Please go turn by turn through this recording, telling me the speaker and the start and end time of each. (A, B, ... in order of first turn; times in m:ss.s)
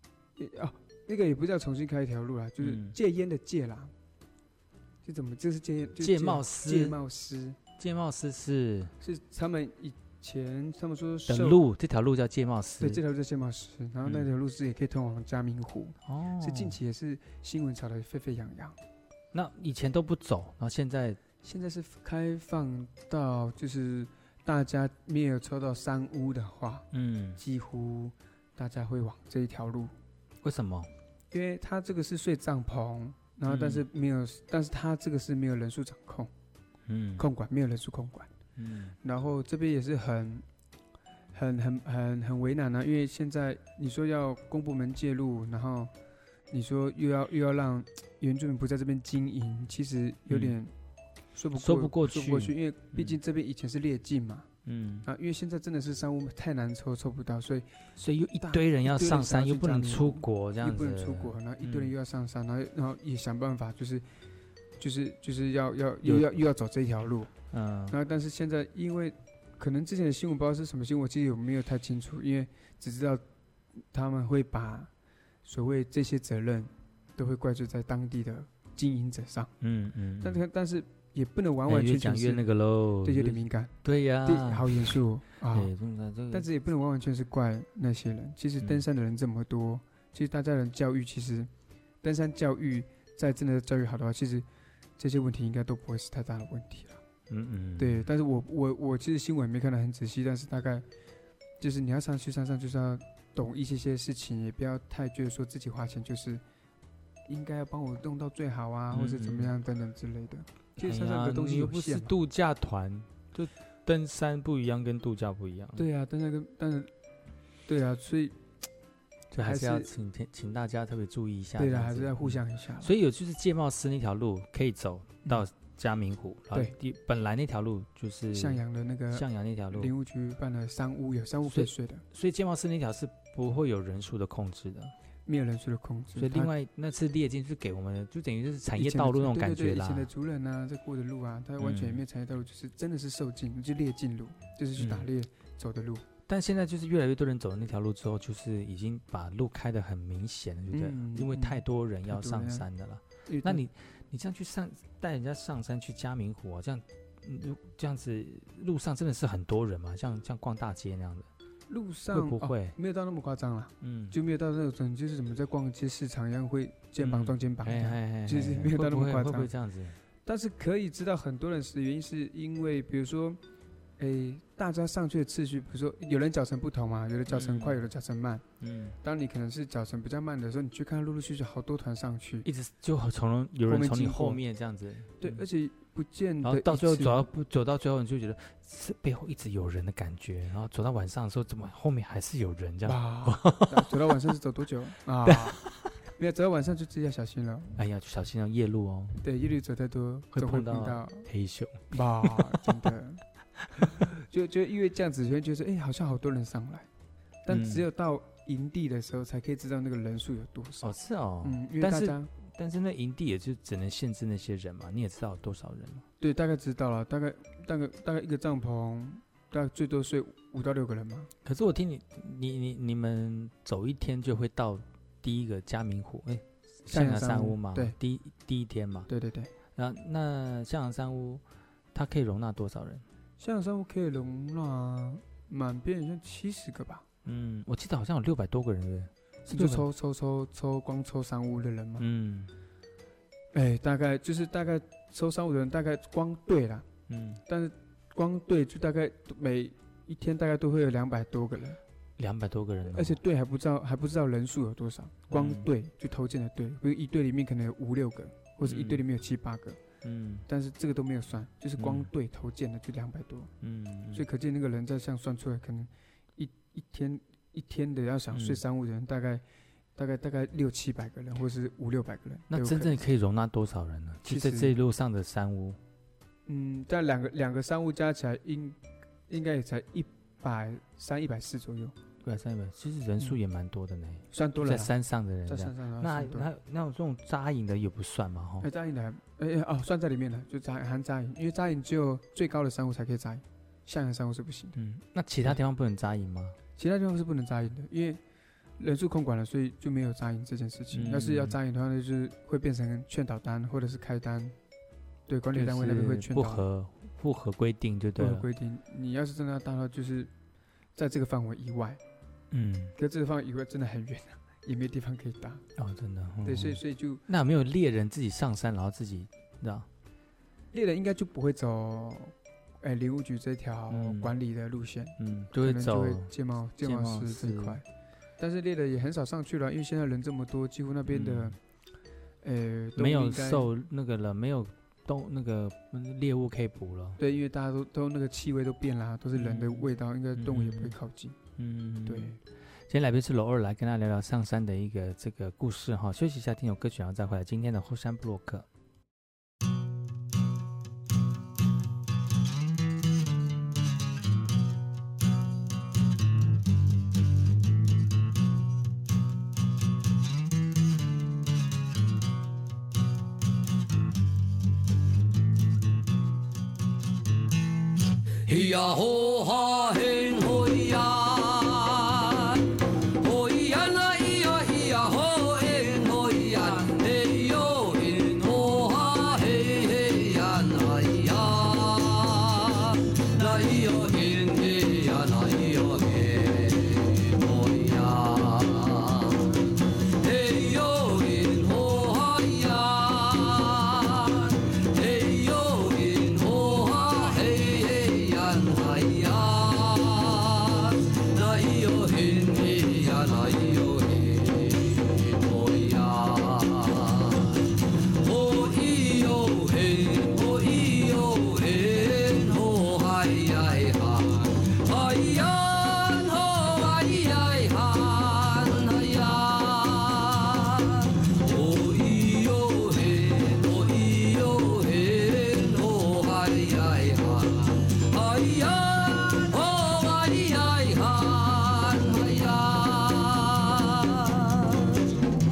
0:00.4-0:03.9 A
0:02.6-0:03.0 B
0:05.0-0:07.6 A
0:06.0-0:07.0 B
0:07.8-0:08.9 B
0:09.0-0:11.6 A
0:11.3-0:13.0 B
0:12.8-0:18.8 A
0:16.1-0:16.8 B
0:19.3-0:21.2 B
0:21.4-0:29.9 A
0:26.9-0:27.4 B
0:30.4-0:30.9 B
0:31.3-0:36.3 A
0:33.5-0:33.8 B
0:36.9-0:37.2 B
0:37.2-0:38.3 A
0:38.6-0:39.0 B
0:39.0-0:40.4 A
0:41.3-0:45.9 A
0:46.5-0:50.7 A
0:50.3-0:50.6 B
0:51.3-0:54.5 A
0:51.6-0:53.2 B
0:54.6-0:55.1 B
0:55.0-0:57.7 A
0:58.0-1:02.0 B
0:58.4-1:04.0 A
1:04.8-1:07.3 A
1:06.0-1:06.3 B
1:07.5-1:08.0 B
1:07.9-1:13.2 A
1:13.9-1:14.9 A
1:15.4-1:19.5 A
1:19.6-1:20.4 B
1:20.2-1:22.5 A
1:21.7-1:25.0 B
1:23.0-1:25.7 A
1:25.5-1:26.5 B
1:26.3-1:31.5 A
1:32.0-1:34.5 A
1:35.0-1:37.0 A
1:37.3-1:38.1 B
1:37.8-1:40.8 A
1:41.6-1:46.4 A
1:47.3-1:52.1 A
1:48.9-1:49.5 B
1:50.8-1:55.8 B
1:55.8-1:56.9 A
1:57.7-1:58.4 A
1:59.3-2:09.9 B
1:59.4-1:59.9 A
2:01.6-2:02.9 A
2:08.3-2:12.0 A
2:11.5-2:14.9 B
2:15.3-2:16.5 A
2:16.2-2:20.1 B
2:18.7-2:26.0 A
2:21.6-2:22.0 B
2:24.8-2:25.1 B
2:26.3-2:41.3 B
2:30.7-2:32.6 A
2:33.3-2:33.6 A
2:41.7-2:49.5 A
2:42.1-2:42.8 B
2:43.8-2:44.2 B
2:47.0-2:50.0 B
2:50.2-2:53.4 A
2:54.0-2:58.4 A
2:57.3-2:57.8 B
2:58.6-2:59.0 B
2:59.0-3:02.5 A
3:02.4-3:05.4 B
3:03.7-3:04.4 A
3:05.2-3:07.3 A
3:06.4-3:14.0 B
3:12.8-3:17.8 A
3:15.2-3:15.9 B
3:17.8-3:19.2 B
3:19.2-3:21.3 A
3:20.3-3:22.8 B
3:21.9-3:23.2 A
3:23.6-3:24.1 B
3:23.8-3:26.9 A
3:27.4-3:32.3 A
3:27.5-3:27.9 B
3:30.8-3:36.0 B
3:36.2-3:41.3 A
3:41.4-3:49.1 B
3:46.9-3:48.0 A
3:49.1-3:49.5 A
3:49.8-3:53.0 B
3:53.4-3:57.0 A
3:57.2-3:59.9 B
3:59.5-4:02.1 A
4:02.0-4:02.5 B
4:03.5-4:06.9 A
4:07.1-4:07.4 B
4:07.4-4:11.8 A
4:12.2-4:13.2 B
4:12.9-4:19.8 A
4:15.3-4:15.7 B
4:18.6-4:19.0 B
4:20.0-4:20.5 B
4:20.5-4:23.5 A
4:21.8-4:22.1 B
4:23.6-4:24.2 B
4:24.1-4:29.4 A
4:28.3-4:28.6 B
4:30.0-4:33.0 A
4:32.5-4:35.8 B
4:34.2-4:34.8 A
4:36.5-4:42.0 A
4:42.2-4:48.7 B
4:44.3-4:46.5 A
4:48.6-4:54.8 A
4:54.8-4:56.6 B
4:56.8-4:58.2 A
4:58.8-5:04.6 A
5:00.9-5:01.6 B
5:05.3-5:06.6 A
5:05.5-5:08.5 B
5:08.2-5:10.3 A
5:11.0-5:12.0 A
5:12.5-5:13.0 B
5:13.0-5:15.6 A
5:15.8-5:19.9 B
5:16.4-5:17.2 A
5:20.7-5:27.8 A
5:23.9-5:24.3 B
5:25.2-5:27.8 B
5:28.4-5:31.6 A
5:31.1-5:31.6 B
5:32.4-5:33.7 A
5:33.0-5:37.2 B
5:37.2-5:41.4 A
5:39.4-5:41.0 B
5:41.6-5:48.7 B
5:42.0-5:42.4 A
6:08.4-7:15.1 C